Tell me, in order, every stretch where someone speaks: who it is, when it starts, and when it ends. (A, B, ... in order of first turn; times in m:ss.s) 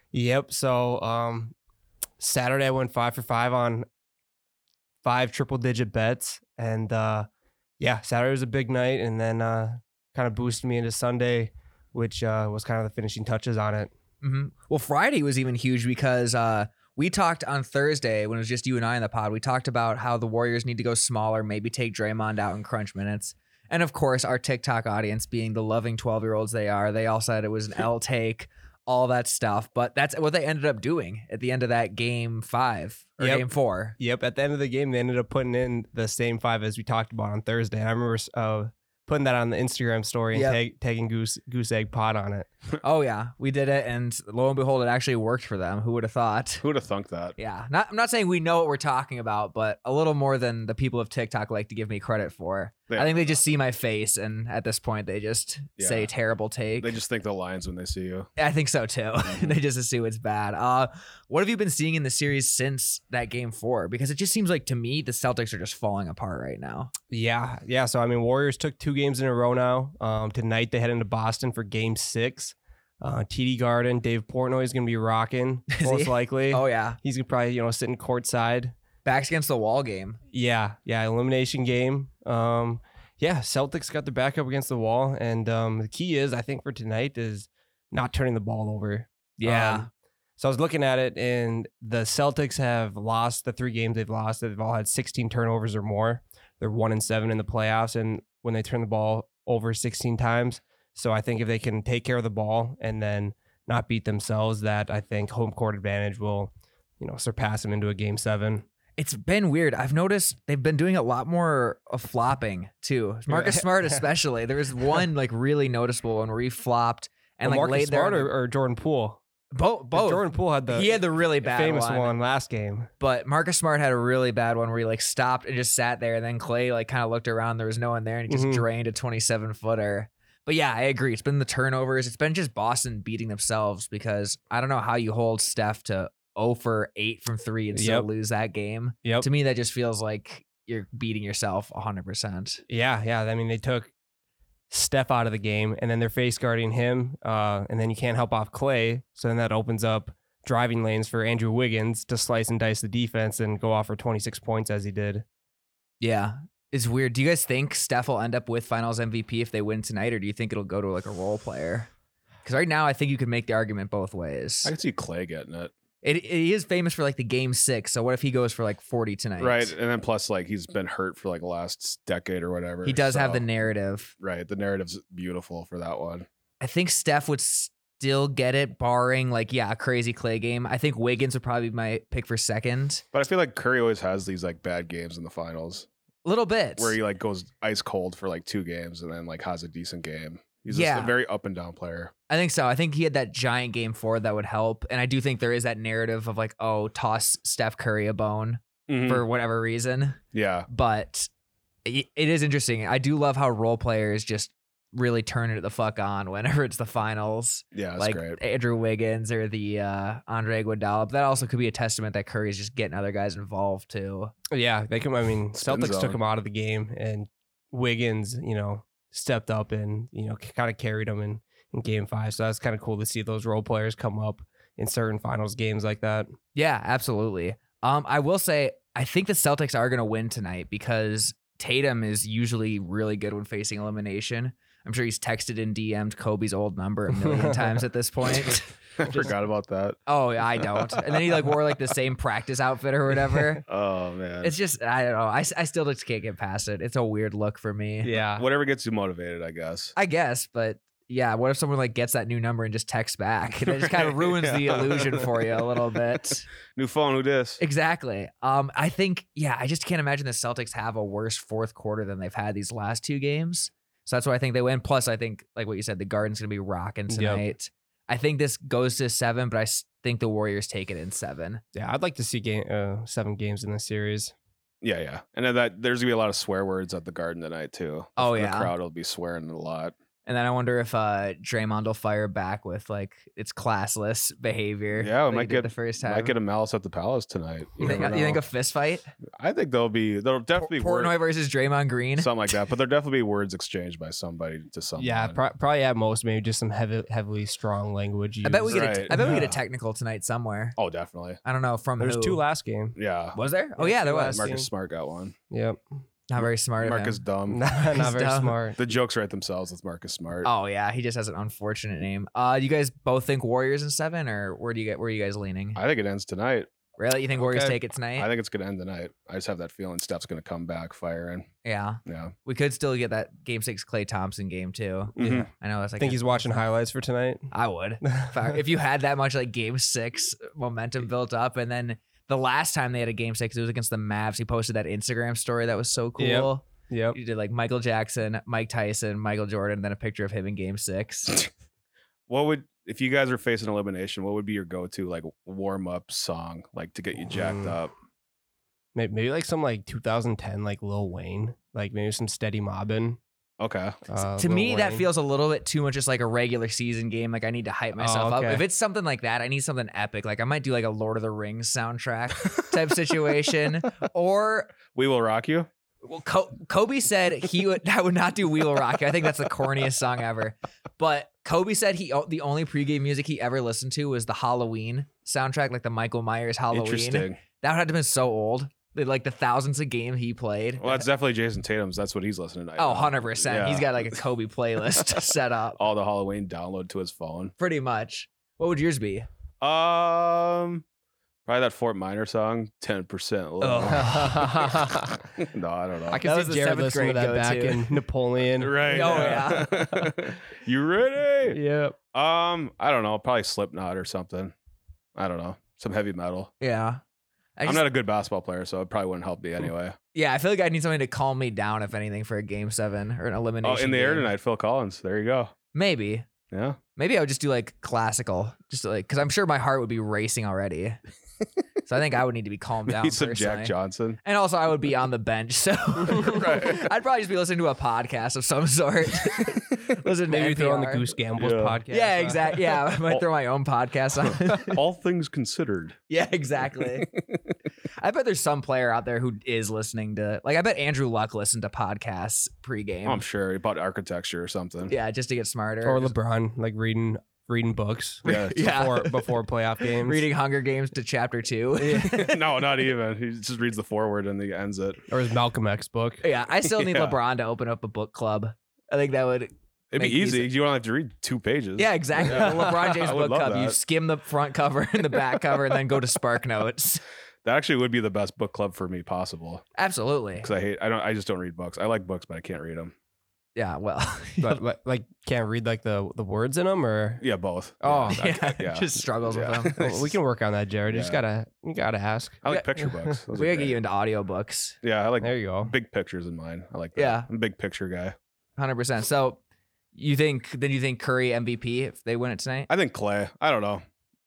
0:00.1-0:01.5 A
0:02.2-0:03.8 A
0:05.0-0:07.3 A
0:07.8-0:13.9 A
0:14.2-0:34.0 B
0:33.2-0:33.4 A
0:34.0-0:42.5 A
0:40.3-0:40.6 B
0:42.8-0:46.6 B
0:46.6-0:47.3 C
0:47.4-0:56.9 B
0:52.9-0:53.2 C
0:55.8-0:56.1 C
0:56.8-0:58.3 C
0:58.4-1:06.9 B
0:59.2-0:59.6 C
1:07.1-1:18.7 A
1:15.7-1:17.0 B
1:19.0-1:20.2 B
1:20.3-1:48.6 A
1:29.4-1:29.9 B
1:49.0-1:58.3 B
1:53.3-1:54.0 A
1:57.4-1:59.2 A
1:59.5-2:02.2 B
1:59.9-2:02.9 A
2:03.0-2:22.6 B
2:08.3-2:08.6 A
2:17.7-2:18.1 A
2:22.7-2:23.9 A
2:24.7-2:35.2 A
2:36.0-2:41.9 B
2:42.4-2:44.7 B
2:44.6-2:45.7 C
2:46.0-2:49.7 B
2:49.4-2:53.4 C
2:52.8-2:54.1 B
2:54.2-2:56.3 C
2:56.6-3:03.0 B
3:03.1-3:05.9 C
3:06.2-3:07.0 B
3:06.8-3:12.1 C
3:10.7-3:11.1 B
3:12.3-3:21.3 B
3:18.9-3:19.2 C
3:20.3-3:20.7 C
3:21.8-3:34.3 B
3:27.7-3:28.4 C
3:34.5-3:46.3 A
3:35.5-3:36.2 C
3:46.5-3:59.3 B
3:57.2-3:57.7 A
3:59.0-4:00.0 C
4:00.1-4:03.6 B
4:00.6-4:01.2 C
4:03.7-4:04.5 C
4:04.4-4:08.1 B
4:08.0-4:08.4 A
4:08.3-4:09.9 C
4:10.0-4:16.4 B
4:13.6-4:15.7 C
4:16.7-4:17.6 C
4:17.6-4:31.6 B
4:27.1-4:27.4 A
4:31.7-4:34.3 A
4:34.8-4:39.9 C
4:38.2-4:38.7 B
4:40.2-4:46.3 B
4:45.0-4:48.4 C
4:47.8-4:48.1 A
4:47.8-4:49.1 B
4:49.4-4:51.1 C
4:50.6-4:52.3 B
4:52.2-4:55.4 C
4:55.0-4:59.5 A
4:58.4-5:00.8 B
4:58.7-4:59.5 C
5:00.8-5:01.4 C
5:01.4-5:02.4 B
5:02.0-5:03.0 A
5:03.0-5:03.4 C
5:03.3-5:04.4 B
5:03.8-5:04.7 A
5:04.3-5:05.4 C
5:05.5-5:05.8 A
5:06.3-5:07.2 B
5:06.4-5:07.6 C
5:07.5-5:08.8 A
5:07.8-5:08.6 B
5:08.8-5:10.5 C
5:10.4-5:15.8 B
5:15.7-5:16.7 C
5:17.0-5:18.3 B
5:17.4-5:17.8 A
5:18.2-5:21.5 C
5:21.6-5:26.5 B
5:22.0-5:22.3 C
5:25.2-5:25.5 C
5:26.0-5:27.5 A
5:27.5-5:41.4 B
5:28.0-5:28.6 A
5:36.2-5:37.2 A
5:42.3-5:47.9 C
5:47.3-5:47.7 A
5:48.9-5:53.2 A
5:53.6-5:54.0 C
5:54.1-5:55.1 A
5:54.4-6:04.8 B
5:58.0-5:58.6 A
6:04.9-6:05.7 C
6:06.0-6:21.0 B
6:16.7-6:17.4 C
6:20.8-6:24.2 C
6:22.8-6:25.8 B
6:25.8-6:27.5 C
6:27.6-6:29.3 B
6:29.6-6:30.8 C
6:31.4-6:34.7 C
6:33.6-6:34.5 B
6:33.8-6:35.1 A
6:35.3-6:36.2 C
6:36.1-6:40.1 A
6:36.2-6:37.8 B
6:38.5-6:41.6 C
6:38.9-6:39.7 B
6:41.5-6:42.0 A
6:42.1-6:44.5 C
6:45.2-6:46.5 C
6:46.6-6:47.0 B
6:47.6-6:47.8 B
6:47.6-6:50.0 C
6:50.1-6:54.3 B
6:53.6-6:55.5 C
6:55.7-6:56.3 B
6:56.5-6:56.8 C
6:57.0-7:01.0 B
7:01.8-7:11.1 B
7:02.9-7:04.2 C
7:06.1-7:06.9 C
7:10.3-7:12.8 A
7:11.4-7:11.8 C
7:11.9-7:14.8 B
7:14.2-7:16.0 C
7:16.1-7:17.1 B
7:16.6-7:17.6 C
7:18.0-7:23.2 B
7:23.0-7:24.9 C
7:24.9-7:26.2 B
7:25.8-7:30.3 A
7:28.2-7:28.7 C
7:28.2-7:32.6 B
7:31.8-7:32.2 A
7:32.0-7:35.0 C
7:35.1-7:36.2 A
7:36.2-7:40.5 B
7:36.6-7:37.2 C
7:39.9-7:43.8 C
7:41.8-7:47.0 B
7:42.4-7:42.7 A
7:47.4-7:49.6 C
7:49.8-7:50.5 B
7:50.4-7:52.9 C
7:53.5-7:54.6 B
7:54.4-7:57.2 A
7:57.2-8:00.2 C
7:57.8-7:58.2 A
7:57.9-7:59.8 B
7:59.8-8:03.1 A
8:00.9-8:01.2 C
8:02.4-8:03.8 C
8:03.3-8:04.8 B
8:04.8-8:08.2 C
8:05.2-8:05.7 A
8:06.9-8:07.3 B
8:08.6-8:09.4 B
8:09.9-8:12.7 B
8:12.7-8:13.8 C